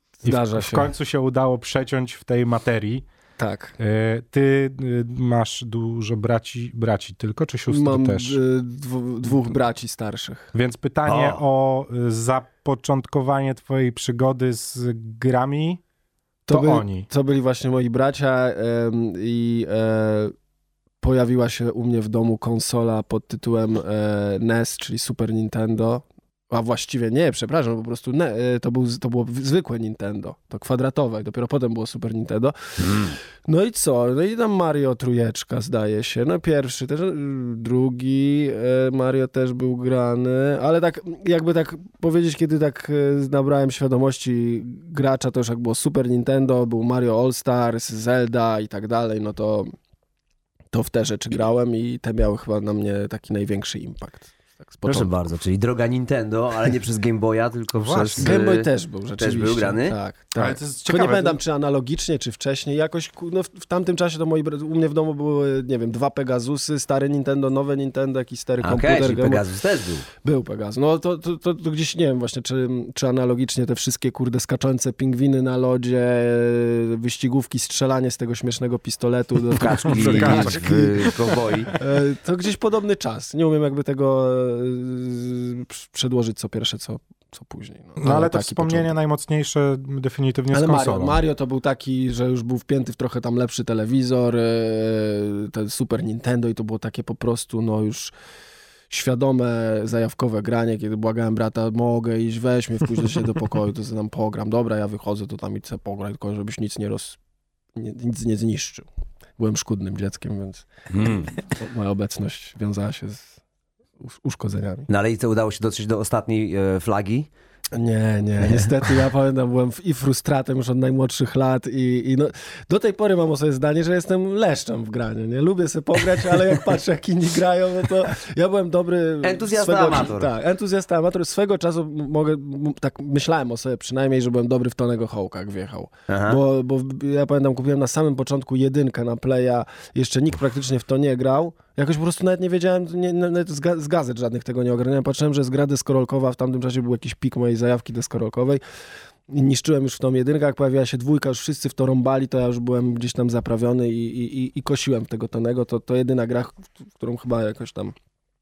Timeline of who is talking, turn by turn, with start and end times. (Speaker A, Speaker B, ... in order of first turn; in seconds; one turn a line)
Speaker A: 0.2-0.9
Speaker B: 0.2-3.0
Speaker A: 3.4-3.8
Speaker B: 3.8-8.4
Speaker A: 7.7-10.5
Speaker B: 10.5-15.8
Speaker C: 11.1-11.4
Speaker B: 16.5-17.1
Speaker A: 16.5-20.3
Speaker A: 21.0-49.7
Speaker C: 32.8-33.2
Speaker A: 50.7-55.1
Speaker C: 54.9-60.0
Speaker B: 57.8-58.4
Speaker A: 58.2-69.4
Speaker B: 60.4-61.4
Speaker C: 68.6-70.1
Speaker A: 70.2-81.2
Speaker C: 79.5-81.8
Speaker B: 79.6-81.4
Speaker A: 81.8-88.9
Speaker B: 88.0-91.2
Speaker A: 90.5-98.1
Speaker A: 98.9-107.2
Speaker A: 107.8-108.9
Speaker A: 109.4-110.7
Speaker C: 110.9-111.3
Speaker A: 111.4-113.3
Speaker A: 114.0-114.9
Speaker C: 114.9-117.3
Speaker A: 117.8-148.6
Speaker C: 129.2-130.3
Speaker C: 136.1-136.4
Speaker A: 149.3-157.9